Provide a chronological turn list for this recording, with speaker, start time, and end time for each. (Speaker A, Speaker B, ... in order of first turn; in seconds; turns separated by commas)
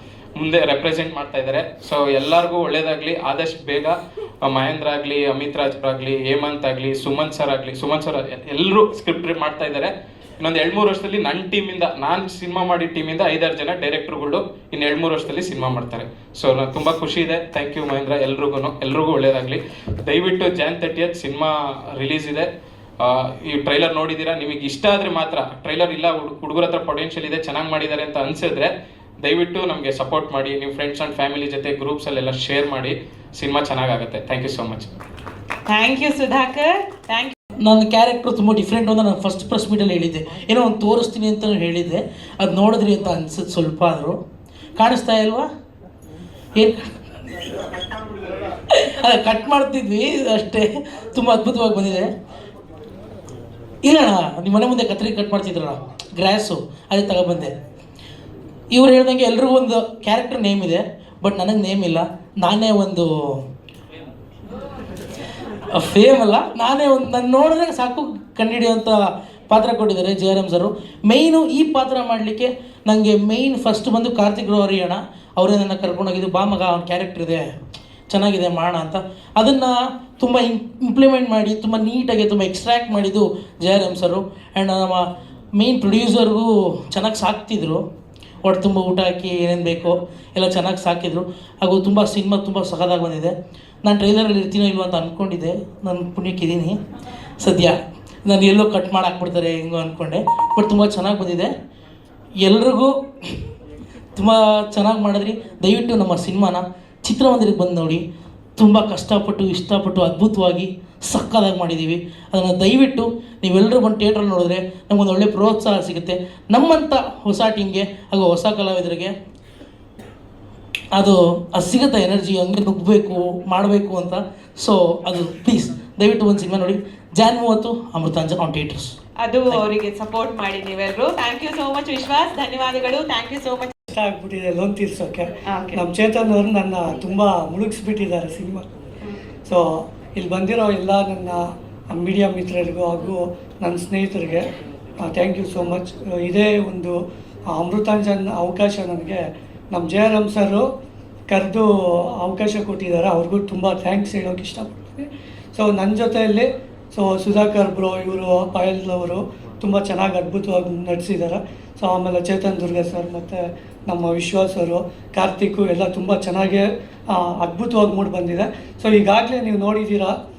Speaker A: 0.4-22.5, Speaker A: 23.0-28.7, Speaker A: 29.2-34.9, Speaker B: 35.7-37.3, Speaker C: 37.6-44.2, Speaker C: 44.8-45.5, Speaker C: 48.7-52.1, Speaker C: 53.8-57.5, Speaker C: 58.7-63.1, Speaker C: 65.7-77.4, Speaker C: 78.1-85.0, Speaker C: 85.6-87.8, Speaker C: 88.5-93.3, Speaker C: 93.8-96.8, Speaker C: 97.4-101.5, Speaker C: 102.4-102.9, Speaker C: 104.2-108.0, Speaker C: 108.6-119.1, Speaker C: 120.9-128.9, Speaker B: 129.2-133.7, Speaker D: 133.9-138.7, Speaker B: 135.5-135.8, Speaker D: 140.2-144.5, Speaker D: 145.0-146.9, Speaker D: 147.5-150.7, Speaker D: 151.3-151.7, Speaker D: 152.2-170.2